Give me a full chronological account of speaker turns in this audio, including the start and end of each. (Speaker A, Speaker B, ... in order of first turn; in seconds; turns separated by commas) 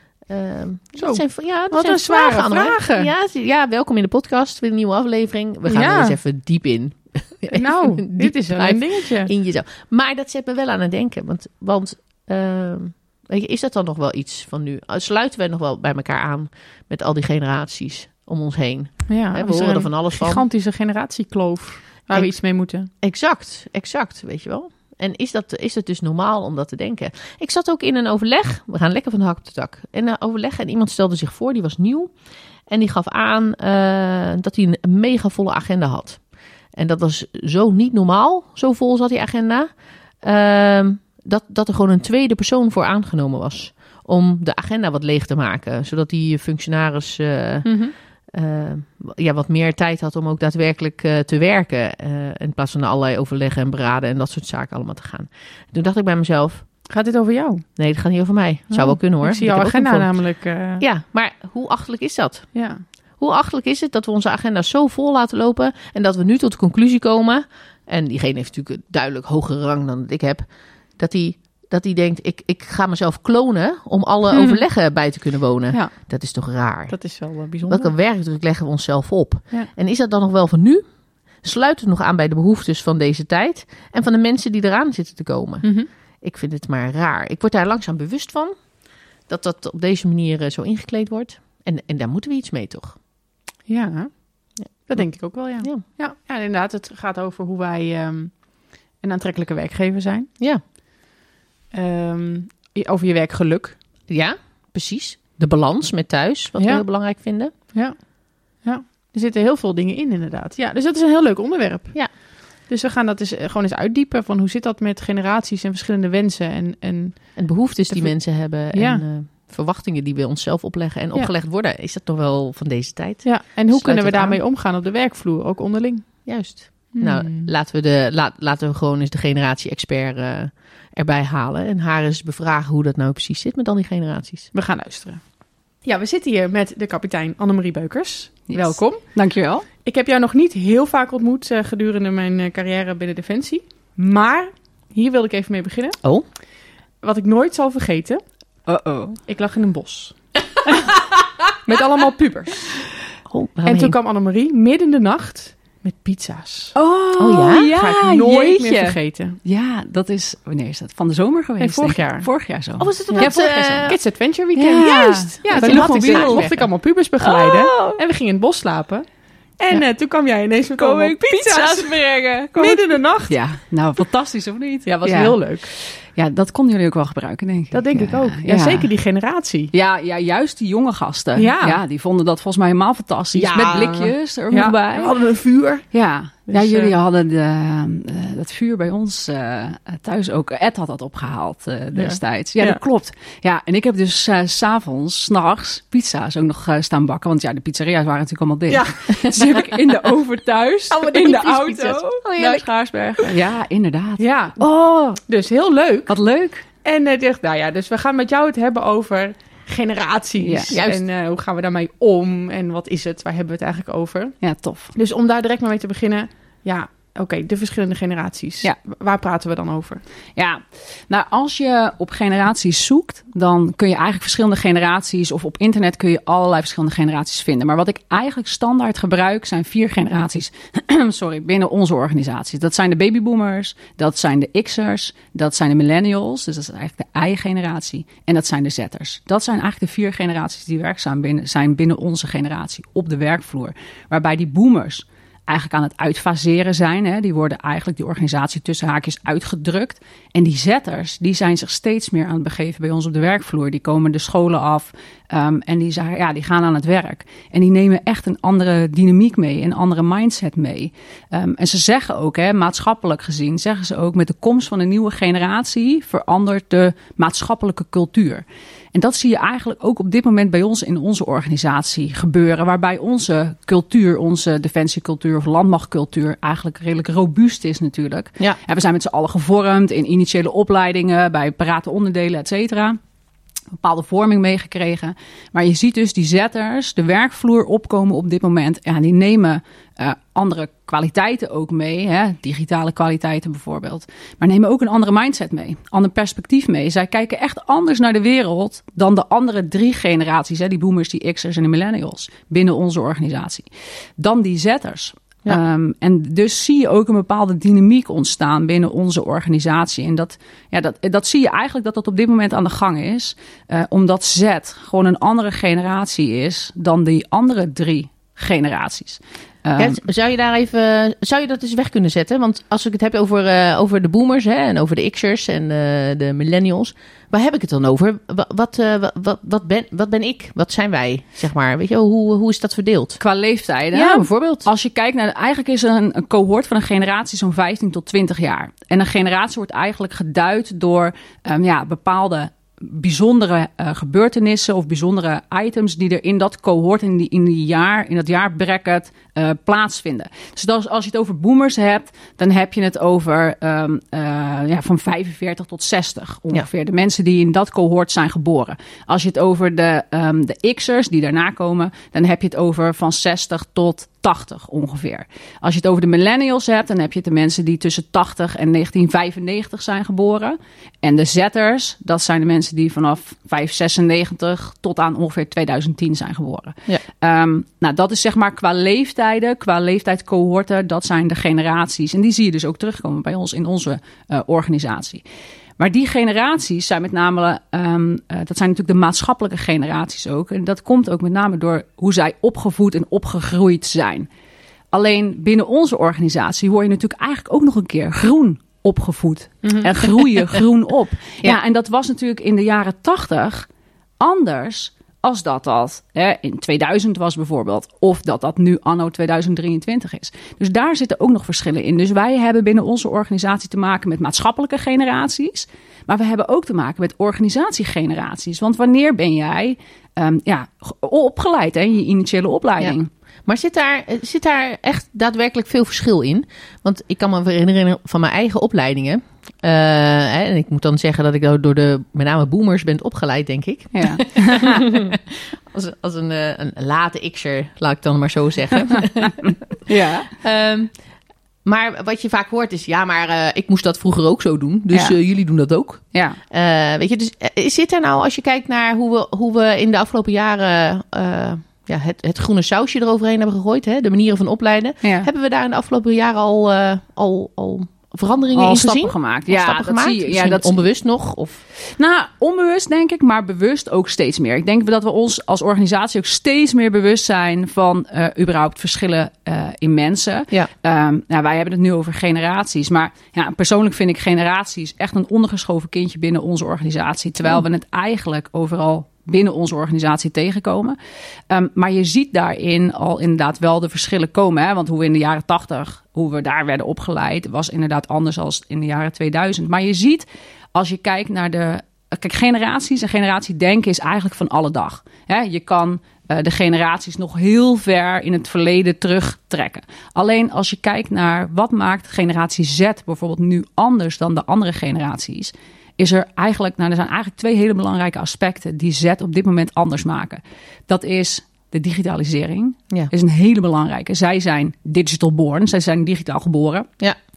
Speaker A: 0.2-20.4, Speaker B: 0.9-3.1, Speaker B: 5.7-6.2, Speaker B: 7.5-9.3, Speaker B: 19.1-22.9, Speaker A: 22.1-56.7, Speaker B: 47.6-47.9, Speaker B: 56.9-57.6, Speaker A: 57.8-93.0, Speaker B: 58.7-60.8, Speaker B: 62.5-62.8, Speaker B: 74.3-74.6, Speaker B: 75.7-76.0, Speaker B: 76.9-77.9, Speaker B: 85.6-85.9, Speaker B: 93.7-100.3, Speaker A: 94.6-95.8, Speaker B: 101.7-103.8, Speaker A: 104.1-107.5, Speaker B: 106.6-106.8, Speaker B: 107.5-119.0, Speaker A: 117.3-124.4, Speaker B: 123.2-127.5, Speaker A: 126.2-134.5, Speaker B: 134.5-139.2, Speaker C: 138.5-139.7, Speaker B: 139.8-148.2, Speaker C: 148.7-149.2, Speaker B: 149.3-150.2, Speaker B: 151.6-152.8, Speaker A: 153.2-153.9, Speaker B: 153.6-156.7, Speaker C: 156.8-163.3, Speaker A: 157.2-157.7, Speaker B: 157.7-159.3, Speaker B: 161.6-173.4, Speaker A: 163.2-164.0, Speaker C: 164.6-166.5, Speaker A: 165.4-166.6, Speaker C: 167.2-168.0, Speaker C: 170.8-178.9, Speaker B: 174.8-175.7, Speaker B: 177.7-179.7, Speaker C: 179.7-185.1, Speaker B: 181.3-181.8, Speaker A: 183.3-183.9, Speaker B: 183.5-185.8, Speaker C: 185.9-205.2, Speaker B: 186.5-186.9, Speaker B: 191.9-192.8, Speaker B: 198.7-198.9, Speaker A: 200.9-203.4, Speaker B: 204.2-204.6, Speaker B: 205.2-206.1, Speaker C: 206.1-206.6, Speaker B: 206.8-214.3, Speaker C: 210.4-210.8, Speaker A: 210.7-211.0, Speaker C: 214.4-214.9, Speaker B: 214.9-220.0, Speaker C: 220.3-283.0, Speaker C: 283.8-320.0, Speaker A: 319.8-333.2, Speaker C: 333.2-385.2, Speaker A: 333.9-334.7, Speaker C: 385.8-394.3, Speaker C: 394.9-403.7, Speaker B: 399.6-399.9, Speaker C: 404.2-423.1, Speaker A: 422.8-439.8, Speaker C: 433.9-435.0, Speaker C: 439.9-440.3, Speaker A: 440.4-441.0, Speaker A: 441.6-461.6, Speaker C: 444.9-445.2, Speaker C: 446.1-446.4, Speaker C: 455.0-455.3, Speaker C: 458.5-460.8, Speaker C: 461.8-481.0, Speaker C: 481.5-516.9